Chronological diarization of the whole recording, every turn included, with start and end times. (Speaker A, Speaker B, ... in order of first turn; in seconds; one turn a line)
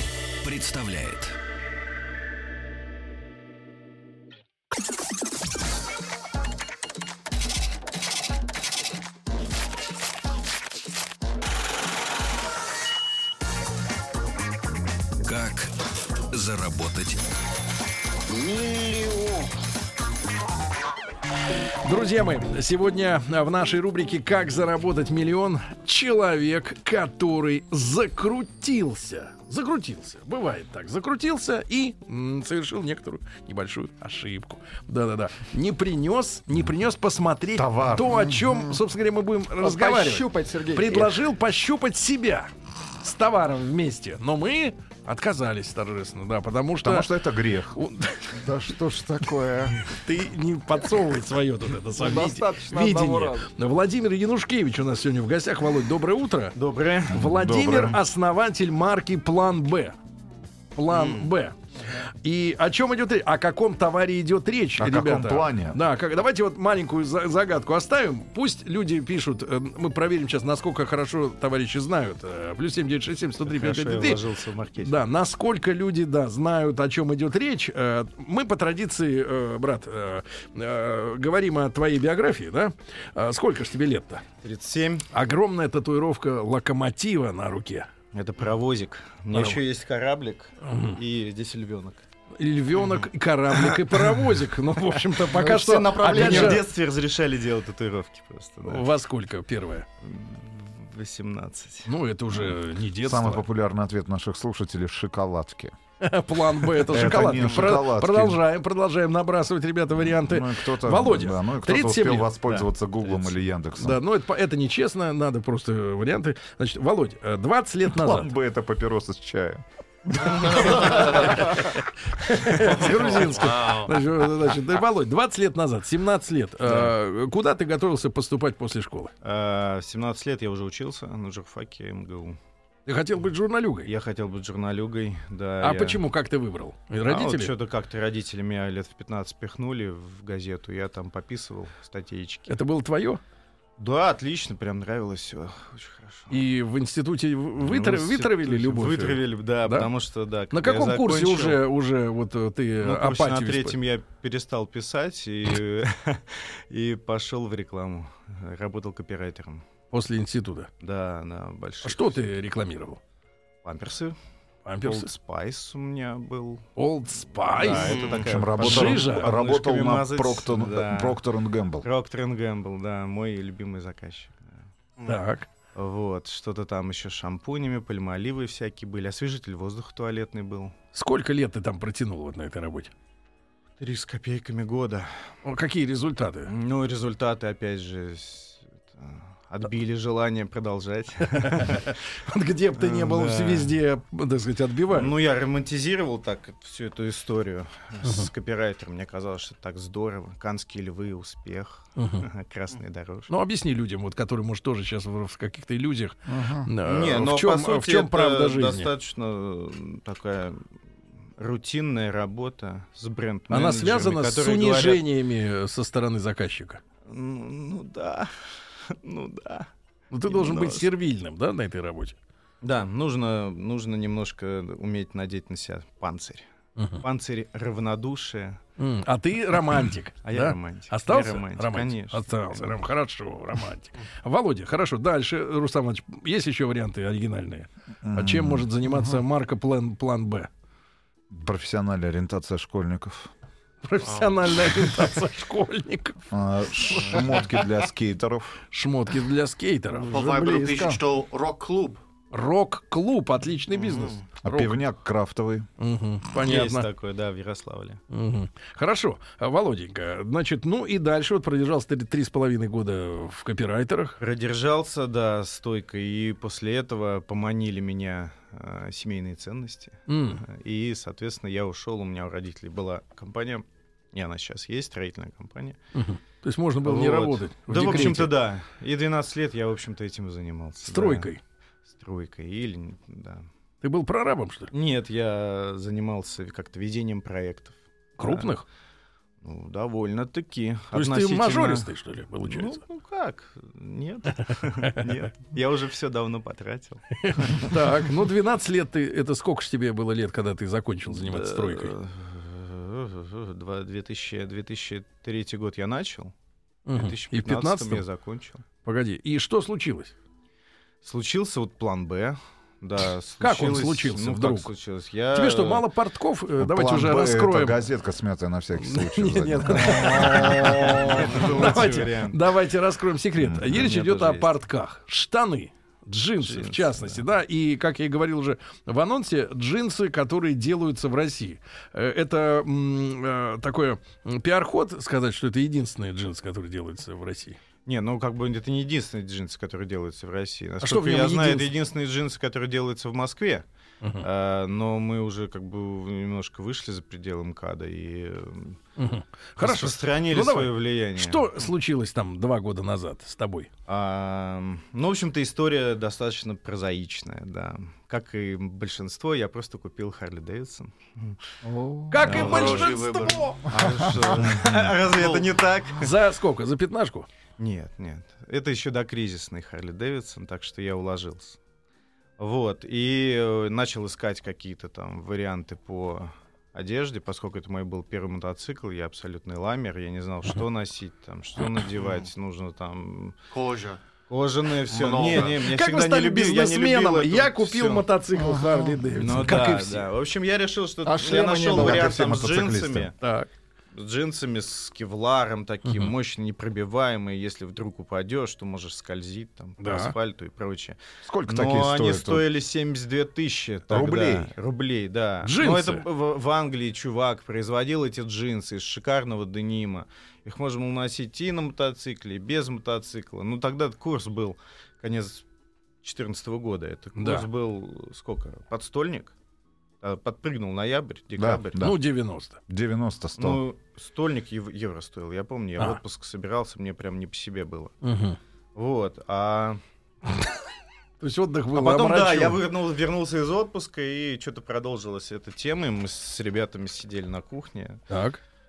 Speaker A: 0.4-1.4
Speaker A: 15.2-15.7
Speaker A: 16.3-17.2
Speaker A: 18.3-19.5
Speaker B: 21.8-42.5
Speaker C: 37.5-38.2
Speaker D: 38.2-38.8
Speaker D: 39.6-41.2
Speaker B: 43.0-47.2
Speaker C: 46.8-47.8
Speaker B: 47.7-48.5
Speaker D: 48.4-49.9
Speaker B: 49.9-56.5
Speaker D: 52.0-53.5
Speaker E: 56.5-57.2
Speaker B: 57.1-59.9
Speaker C: 57.1-58.0
Speaker B: 60.8-61.5
Speaker F: 60.9-61.3
Speaker B: 62.2-74.2
Speaker C: 64.8-65.8
Speaker E: 73.4-75.1
Speaker B: 74.8-84.2
Speaker E: 84.4-85.1
Speaker B: 85.1-87.9
Speaker E: 88.1-92.0
Speaker B: 89.3-89.6
Speaker B: 90.6-91.0
Speaker B: 92.4-96.6
Speaker E: 93.6-94.2
Speaker D: 95.2-96.6
Speaker E: 96.0-98.9
Speaker B: 98.6-99.9
Speaker E: 100.0-101.9
Speaker B: 101.9-103.4
Speaker C: 103.0-105.7
Speaker B: 106.0-112.5
Speaker C: 106.8-108.4
Speaker E: 106.9-107.8
Speaker C: 110.0-114.0
Speaker B: 113.1-118.3
Speaker C: 117.9-119.6
Speaker C: 120.1-120.6
Speaker F: 120.6-121.3
Speaker B: 120.6-129.1
Speaker F: 122.6-123.9
Speaker E: 126.7-126.9
Speaker E: 129.2-132.4
Speaker B: 132.8-133.9
Speaker E: 133.8-136.0
Speaker B: 135.6-137.5
Speaker E: 137.0-142.6
Speaker B: 142.5-143.2
Speaker E: 143.8-146.4
Speaker B: 146.3-149.9
Speaker E: 147.6-151.6
Speaker B: 150.5-153.8
Speaker E: 152.8-159.7
Speaker B: 159.9-160.7
Speaker E: 160.8-162.2
Speaker B: 161.8-163.0
Speaker E: 163.6-164.2
Speaker B: 164.6-165.1
Speaker E: 164.8-166.7
Speaker B: 166.8-168.0
Speaker E: 167.2-171.2
Speaker F: 167.7-168.3
Speaker C: 168.2-171.9
Speaker B: 168.6-169.3
Speaker E: 171.8-174.5
Speaker B: 175.1-175.5
Speaker E: 175.7-180.7
Speaker B: 180.9-182.9
Speaker E: 183.8-185.3
Speaker B: 185.4-186.5
Speaker E: 186.4-192.0
Speaker B: 191.3-195.1
Speaker E: 192.7-193.8
Speaker E: 194.9-203.3
Speaker B: 198.0-198.3
Speaker B: 202.0-202.3
Speaker B: 203.3-208.9
Speaker D: 206.3-206.7
Speaker E: 206.8-210.6
Speaker E: 211.4-215.0
Speaker B: 213.5-216.8
Speaker E: 217.1-218.3
Speaker E: 218.8-219.7
Speaker B: 220.1-222.2
Speaker E: 220.3-220.9
Speaker E: 222.6-226.4
Speaker B: 226.8-227.0
Speaker E: 227.0-228.6
Speaker B: 228.8-240.5
Speaker E: 230.2-232.8
Speaker C: 238.0-238.7
Speaker D: 238.9-239.2
Speaker C: 241.3-243.3
Speaker B: 243.8-247.3
Speaker C: 246.3-248.6
Speaker B: 248.7-250.9
Speaker D: 250.1-251.0
Speaker F: 250.1-252.0
Speaker B: 252.3-254.8
Speaker F: 253.7-254.2
Speaker C: 254.4-255.7
Speaker B: 255.8-256.8
Speaker E: 256.4-258.0
Speaker B: 258.1-264.2
Speaker E: 264.2-275.8
Speaker B: 270.1-270.4
Speaker B: 275.9-278.3
Speaker E: 276.8-281.3
Speaker B: 280.9-281.4
Speaker E: 281.9-283.4
Speaker B: 283.8-284.7
Speaker E: 284.7-288.5
Speaker B: 288.2-288.6
Speaker E: 289.4-291.9
Speaker B: 290.9-292.8
Speaker E: 292.4-297.9
Speaker B: 297.2-301.9
Speaker E: 301.1-306.3
Speaker B: 306.9-308.0
Speaker E: 306.9-308.6
Speaker B: 308.8-310.1
Speaker E: 311.0-315.8
Speaker B: 313.4-314.7
Speaker B: 315.3-317.8
Speaker C: 316.6-320.9
Speaker B: 318.8-337.6
Speaker E: 320.1-322.5
Speaker C: 323.4-323.8
Speaker E: 323.6-324.5
Speaker E: 326.4-327.2
Speaker E: 337.9-343.6
Speaker B: 340.8-341.7
Speaker E: 344.2-348.8
Speaker B: 349.0-353.7
Speaker E: 349.6-351.5
Speaker E: 353.9-361.4
Speaker D: 361.6-362.5
Speaker B: 362.1-363.6
Speaker E: 362.2-362.9
Speaker F: 362.2-363.6
Speaker E: 363.7-366.1
Speaker D: 363.8-364.1
Speaker F: 365.2-365.4
Speaker B: 366.0-367.3
Speaker E: 367.6-371.6
Speaker E: 372.4-383.4
Speaker F: 383.5-384.0
Speaker E: 384.3-388.1
Speaker F: 384.9-385.6
Speaker B: 385.3-390.1
Speaker D: 388.3-389.1
Speaker E: 389.1-393.1
Speaker D: 391.0-392.1
Speaker C: 391.7-393.1
Speaker B: 393.2-393.5
Speaker E: 393.9-415.4
Speaker B: 395.9-396.1
Speaker B: 399.8-400.1
Speaker C: 401.2-402.4
Speaker C: 403.9-404.5
Speaker B: 405.4-406.0
Speaker E: 416.0-419.3
Speaker B: 417.2-417.5
Speaker E: 420.0-421.9
Speaker C: 421.4-422.0
Speaker B: 421.8-422.6
Speaker C: 422.7-423.6
Speaker E: 423.4-427.9
Speaker B: 428.0-428.4
Speaker E: 428.7-429.8
Speaker B: 431.2-432.6
Speaker E: 431.7-438.0
Speaker B: 438.1-438.4